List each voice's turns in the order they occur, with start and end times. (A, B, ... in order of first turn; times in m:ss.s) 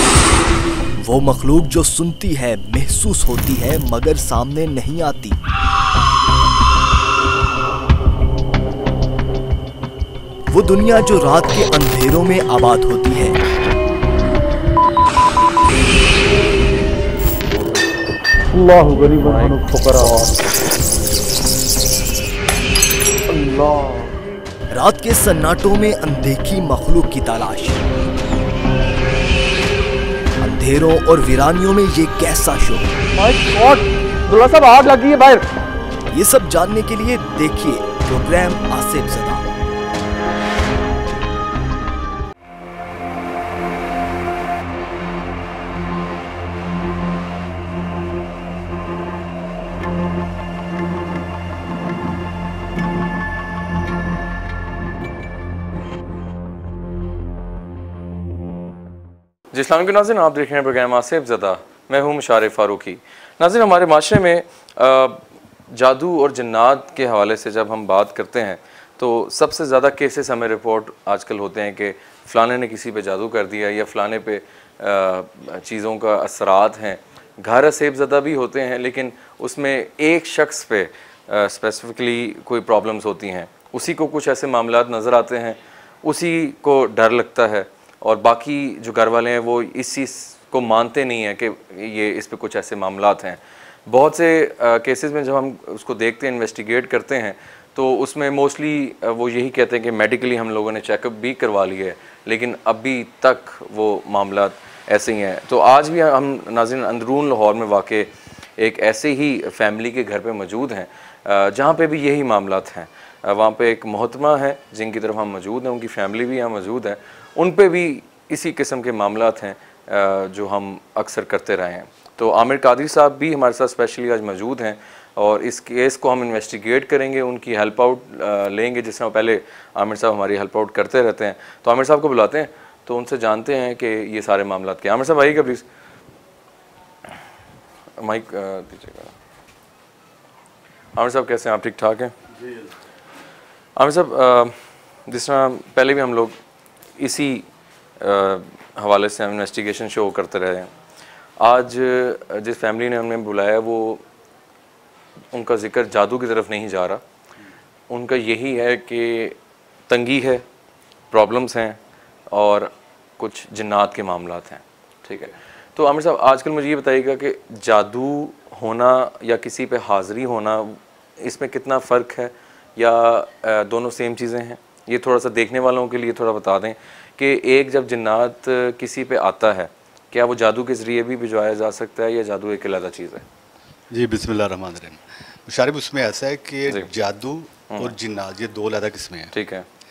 0:01.0-0:05.4 A
0:10.5-0:13.4 A
0:18.5-0:20.5 B
0:19.2-0:19.5 C
0:23.3-0:24.1 B
0:24.7-0:27.9 A
0:30.4-0:32.9 A
0:33.1-0:35.4 B
0:36.1-0:39.5 A
0:59.5-2:15.6 C
2:18.0-2:19.1 C
2:21.0-2:22.1 C
2:22.3-2:22.8 D
2:23.8-2:24.6 C
2:25.1-2:26.4 C
2:27.0-2:27.5 C
2:28.0-2:30.7 C
2:31.4-2:34.0 C
2:35.3-2:37.0 C
2:37.9-2:39.4 C
2:39.9-2:40.4 C
2:41.1-2:41.8 C
2:42.3-3:03.2 C
3:03.9-3:09.3 D
3:07.7-3:08.0 C
3:09.3-3:09.7 C